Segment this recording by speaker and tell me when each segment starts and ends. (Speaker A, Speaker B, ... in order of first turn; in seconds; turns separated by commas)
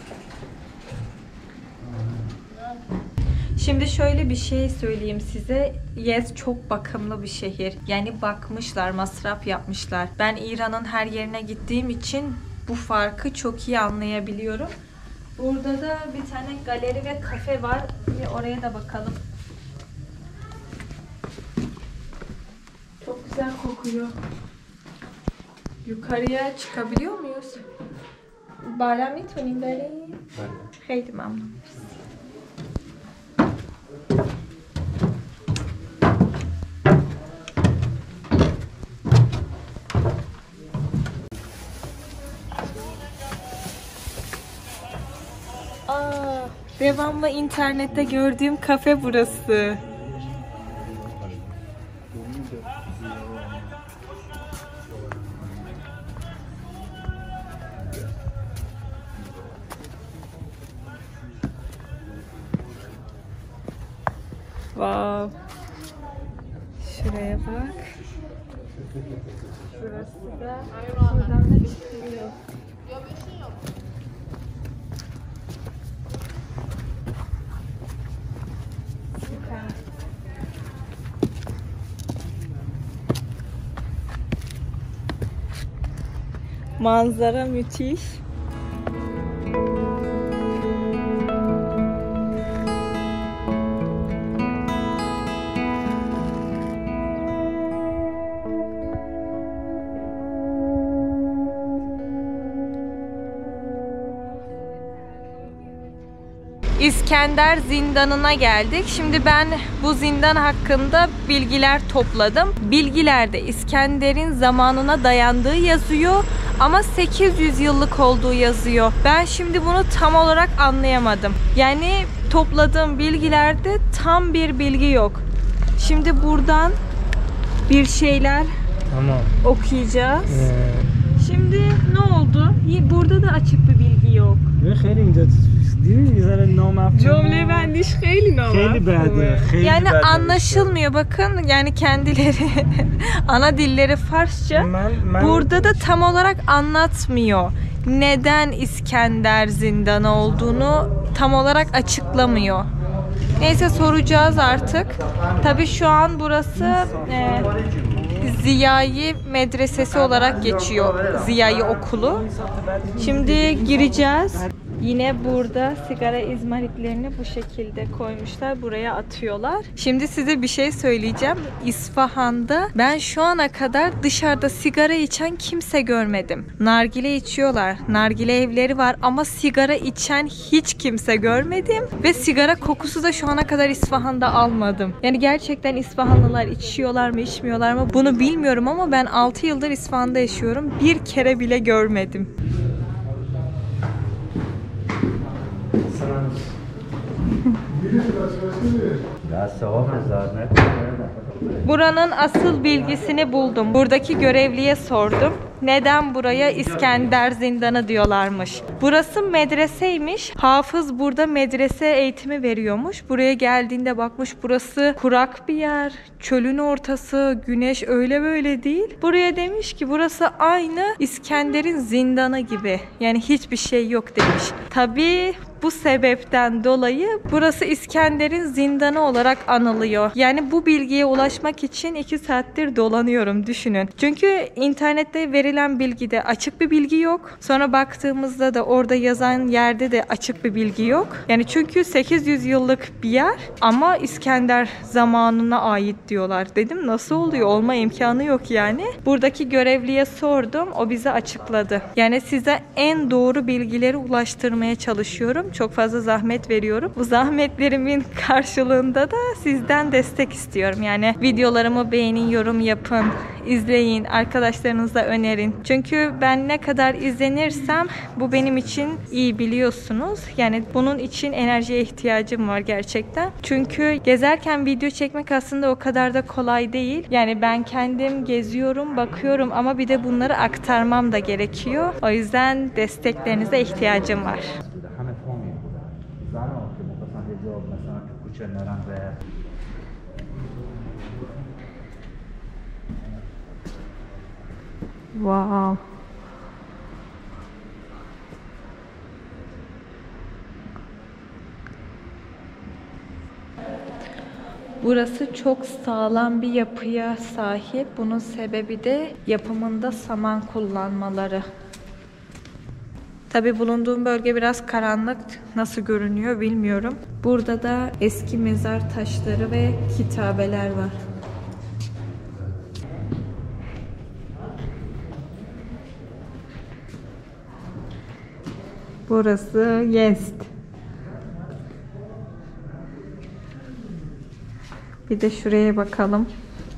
Speaker A: 3.6-14.7, Speaker A: 15.4-19.2, Speaker A: 23.0-24.1, Speaker A: 25.9-27.6, Speaker A: 28.6-30.2, Speaker A: 30.8-31.6, Speaker A: 45.9-49.8, Speaker A: 64.8-65.3, Speaker A: 66.8-67.8, Speaker A: 69.8-72.3, Speaker A: 79.3-79.7, Speaker A: 86.8-88.2, Speaker A: 106.8-125.2, Speaker A: 125.8-126.8, Speaker A: 127.7-128.5, Speaker B: 128.9-129.3, Speaker A: 129.4-130.5, Speaker B: 130.3-130.9, Speaker A: 131.2-134.5, Speaker B: 134.6-137.7, Speaker A: 136.9-152.7, Speaker B: 138.5-140.8, Speaker B: 144.5-145.9, Speaker A: 153.4-157.5, Speaker C: 154.9-155.7, Speaker C: 156.8-158.1, Speaker A: 158.2-162.3, Speaker C: 159.8-161.4, Speaker B: 162.1-163.9, Speaker A: 163.0-192.3, Speaker C: 199.2-201.7, Speaker A: 201.7-284.5, Speaker C: 284.4-289.2, Speaker A: 295.1-295.8, Speaker A: 304.8-311.5, Speaker A: 313.3-321.0, Speaker A: 329.1-330.5, Speaker A: 335.1-336.3